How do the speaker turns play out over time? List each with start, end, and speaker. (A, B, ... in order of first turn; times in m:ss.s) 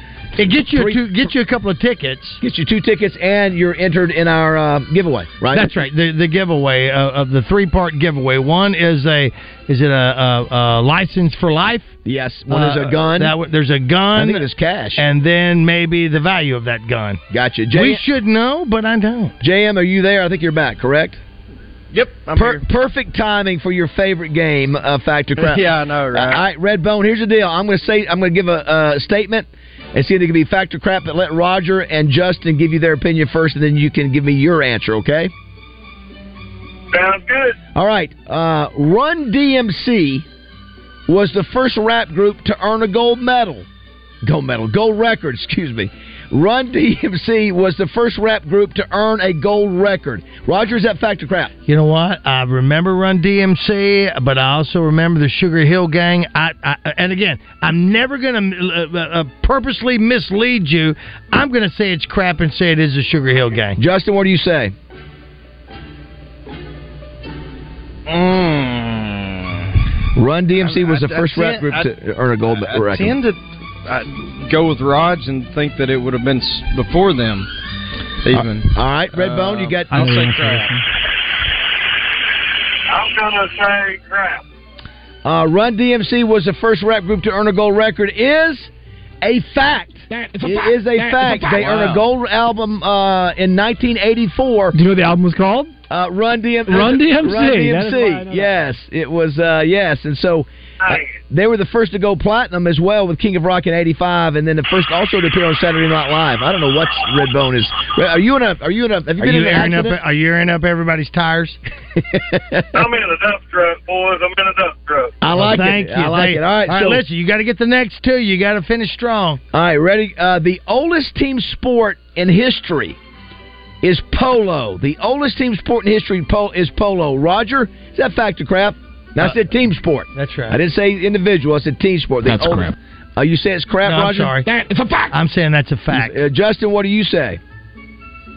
0:00.4-0:02.4 A
0:00.4-0:01.0 B
0:02.4-0:05.7 B
0:05.5-0:11.9 A
0:12.0-0:13.3 B
0:12.5-0:17.2 A
0:14.1-0:15.0 B
0:17.3-0:18.0 B
0:17.7-0:19.3 A
0:19.4-0:21.2 B
0:21.9-0:22.6 C
0:22.3-0:35.3 B
0:25.4-0:26.4 C
0:36.9-0:37.5 D
0:37.7-0:40.2 B
0:41.1-0:43.6 B
0:44.2-0:51.5 B
0:51.6-1:03.8 A
1:03.8-1:04.7 B
1:08.0-1:09.7 C
1:10.1-1:13.2 B
1:10.6-1:11.9 C
1:12.4-1:17.5 C
1:18.2-1:20.8 C
1:18.3-1:20.2 B
1:19.9-1:20.8 E
1:22.9-1:24.4 D
1:25.2-1:28.7 B
1:29.2-1:34.8 B
1:31.7-1:32.0 C
1:34.7-1:35.7 E
1:35.9-1:50.0 B
1:36.7-1:38.6 E
1:40.8-1:41.1 D
1:49.2-1:51.6 A
1:52.0-1:52.8 B
1:52.7-1:55.1 D
1:55.2-1:57.0 B
1:55.3-1:59.4 A
1:59.5-2:03.0 B
2:03.8-2:14.4 B
2:10.1-2:10.6 A
2:13.8-2:14.5 A
2:15.1-2:16.2 A
2:15.9-2:17.4 B